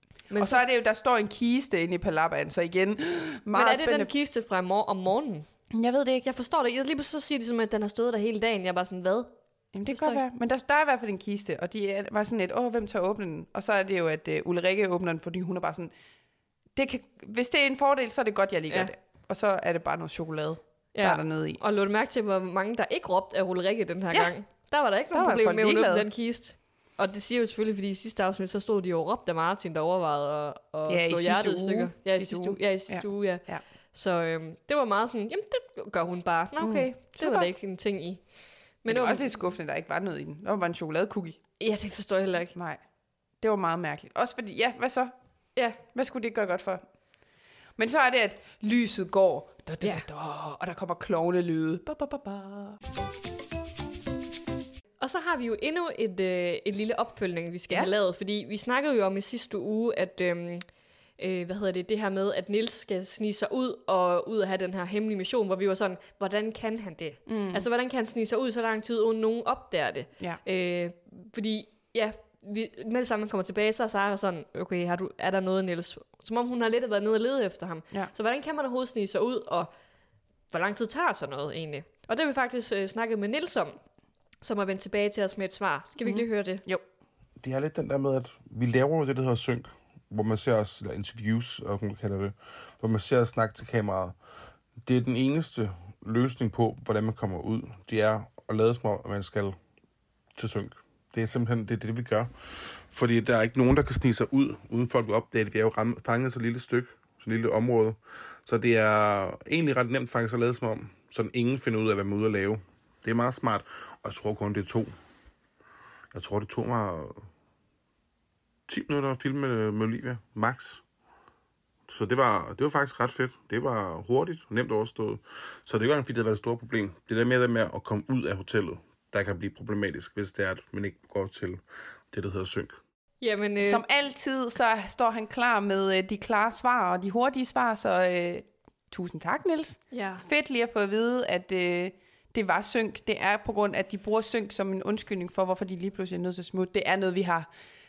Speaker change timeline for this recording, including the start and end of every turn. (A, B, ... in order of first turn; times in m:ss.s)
0:00.3-0:00.6 A
0:00.4-0:04.1 B
0:03.5-0:05.5 A
0:05.7-0:06.3 B
0:06.2-0:09.3 A
0:09.7-0:15.9 B
0:09.9-0:10.2 A
0:16.8-0:21.6 B
0:21.0-0:38.2 A
0:25.1-0:26.1 B
0:30.9-0:33.6 B
0:36.6-0:37.5 B
0:38.8-0:39.3 A
0:38.9-0:41.4 B
0:41.6-0:42.5 A
0:42.5-0:42.8 B
0:43.4-0:45.1 B
0:45.9-0:46.8 B
0:47.8-0:52.8 B
0:55.0-1:00.6 A
1:01.2-1:19.7 A
1:07.3-1:07.7 B
1:20.5-1:23.8 A
1:24.4-1:26.6 A
1:26.0-1:26.8 B
1:27.4-1:34.2 C
1:34.8-1:39.6 C
1:40.4-1:42.3 C
1:42.9-1:54.9 C
1:56.1-1:57.2 C
1:58.7-2:00.8 C
2:01.9-2:12.8 C
2:13.2-2:13.8 A
2:13.6-2:27.5 B
2:19.9-2:20.2 A